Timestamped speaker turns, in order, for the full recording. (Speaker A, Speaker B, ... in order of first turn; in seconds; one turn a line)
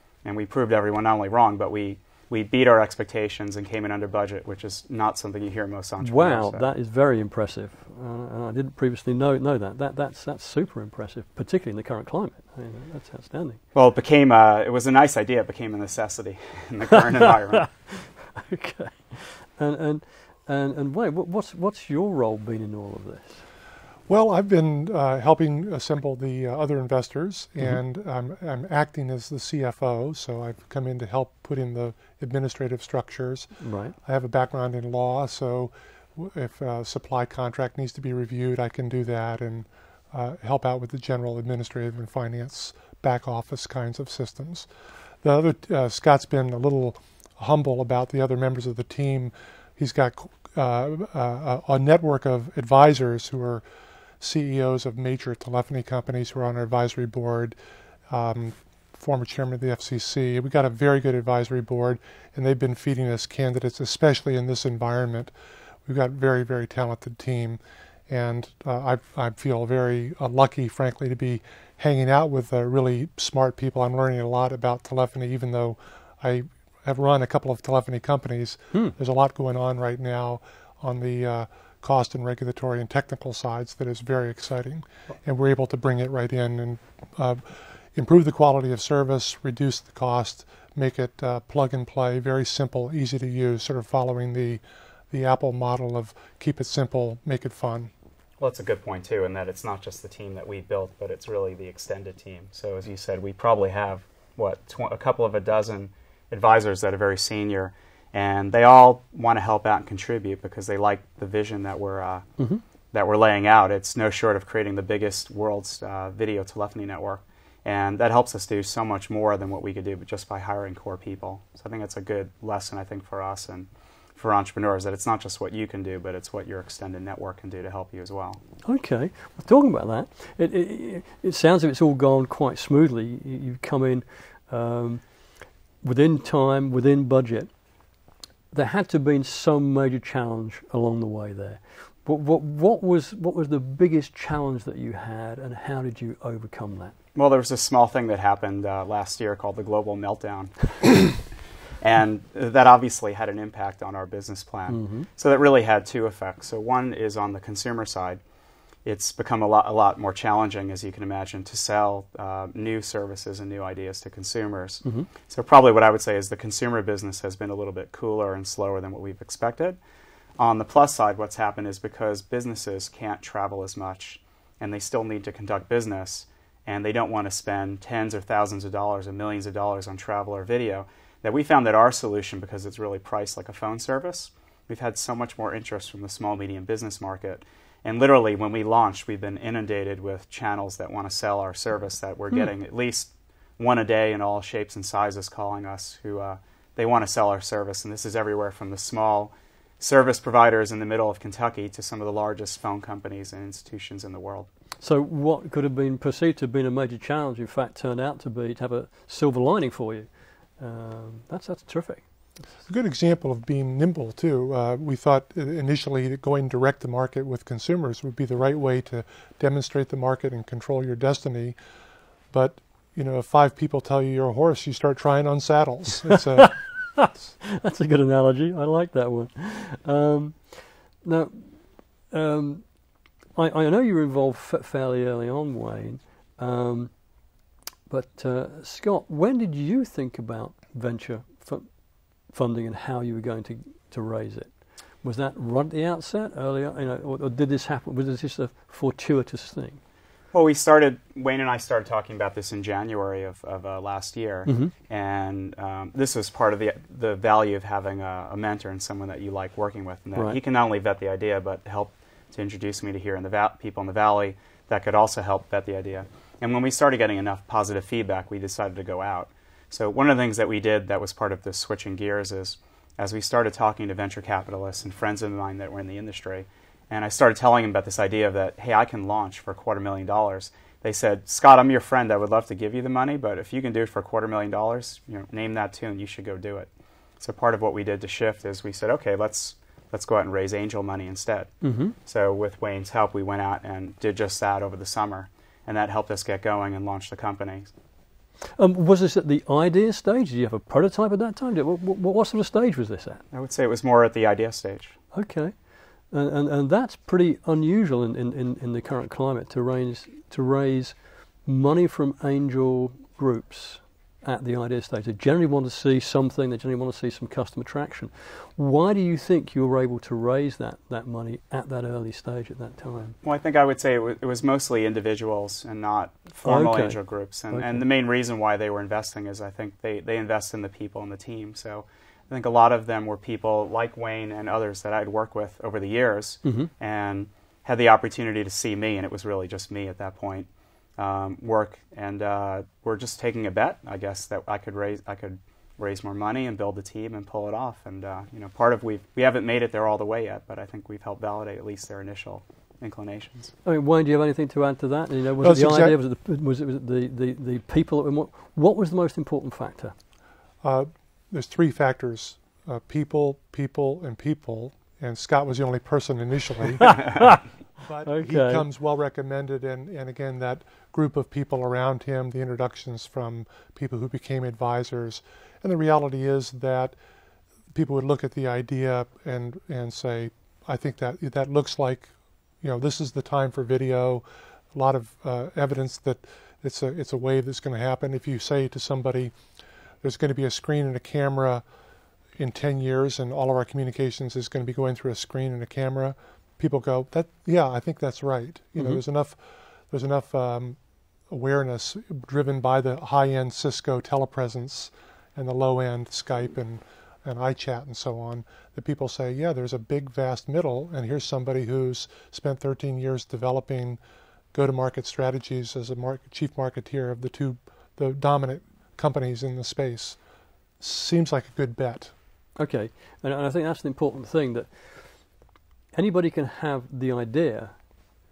Speaker A: 0.2-6.7
Speaker B: 6.0-13.6
Speaker A: 13.7-17.7
Speaker B: 16.9-23.4
Speaker C: 24.1-44.7
Speaker B: 33.6-33.9
Speaker C: 45.2-53.6
Speaker C: 54.2-57.5
Speaker C: 58.1-65.3
Speaker C: 65.8-97.9
Speaker A: 98.4-112.2
Speaker A: 112.9-128.4
Speaker B: 128.6-135.0
Speaker B: 135.8-137.5
Speaker B: 138.5-146.9
Speaker A: 147.1-151.2
Speaker A: 151.8-158.2
Speaker B: 154.7-155.1
Speaker A: 158.8-169.8
Speaker B: 164.8-165.1
Speaker A: 170.4-204.5
Speaker B: 204.8-210.1
Speaker B: 210.6-212.1
Speaker C: 212.7-221.6
Speaker C: 222.3-226.6
Speaker B: 226.3-231.6
Speaker B: 232.1-232.6
Speaker B: 233.3-236.9
Speaker B: 237.9-241.7
Speaker B: 242.3-249.8
Speaker A: 250.3-286.7
Speaker B: 254.4-254.7
Speaker A: 287.2-297.7
Speaker B: 291.6-291.9
Speaker B: 298.6-303.2
Speaker A: 303.3-305.0
Speaker B: 305.1-305.5
Speaker B: 306.1-323.2
Speaker A: 323.2-353.5
Speaker B: 326.4-327.0
Speaker B: 327.5-327.8
Speaker B: 336.4-336.7
Speaker B: 353.6-359.9
Speaker C: 355.4-356.0
Speaker C: 360.6-367.0
Speaker B: 366.8-367.4
Speaker C: 367.8-376.9
Speaker B: 368.0-368.6
Speaker C: 377.7-389.3
Speaker C: 390.0-391.6
Speaker C: 392.4-400.8
Speaker B: 398.8-399.0
Speaker C: 401.3-414.0
Speaker C: 414.5-420.2
Speaker C: 420.8-422.1
Speaker B: 422.6-425.2
Speaker B: 425.9-427.7